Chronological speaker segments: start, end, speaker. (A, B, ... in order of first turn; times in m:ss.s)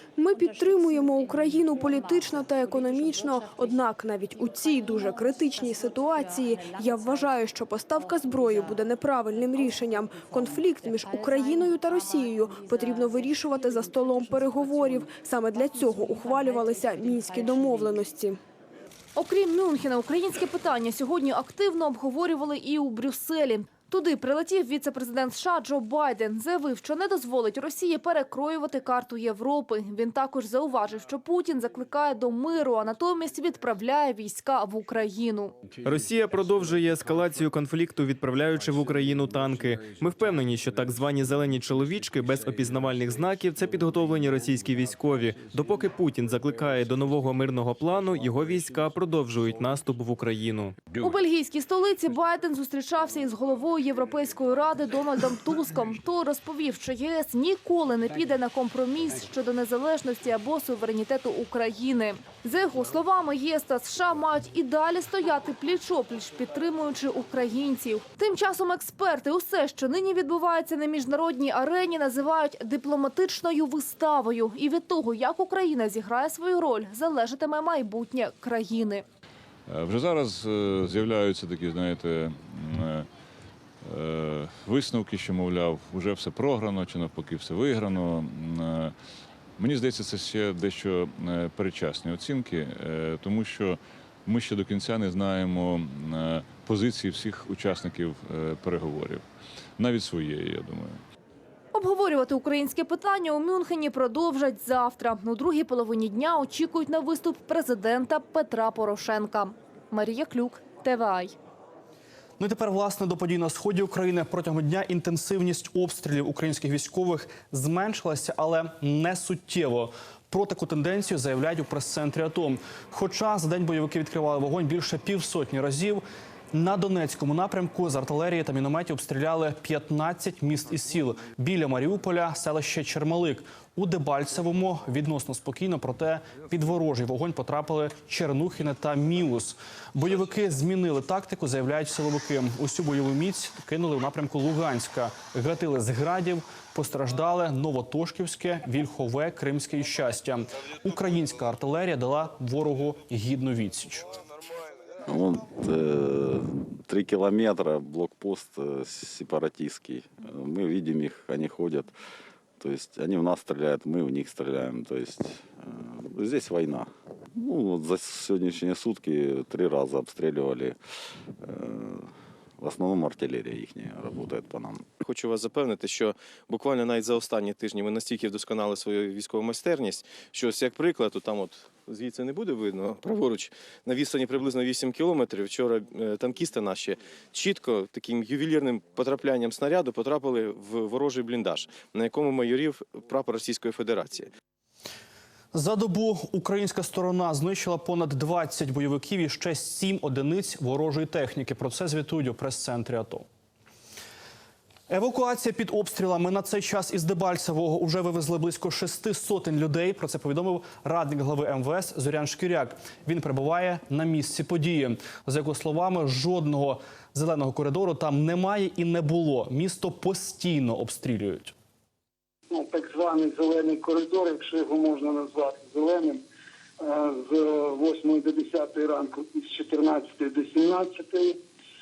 0:00.2-0:18.4 A
0:19.2-0:35.6 B
0:35.8-0:50.8 C
0:50.9-1:19.0 B
1:19.7-1:23.1 D
1:23.8-1:28.9 D
1:29.6-1:39.2 D
1:39.8-1:41.0 D
1:41.7-1:51.3 B
1:52.4-2:34.1 E
2:35.1-2:41.9 F
2:42.6-2:50.8 F
2:51.4-2:54.9 F
2:55.0-3:14.3 G
3:15.5-3:23.2 E
3:24.9-3:41.5 E
3:42.5-3:46.2 H
3:46.8-3:51.4 H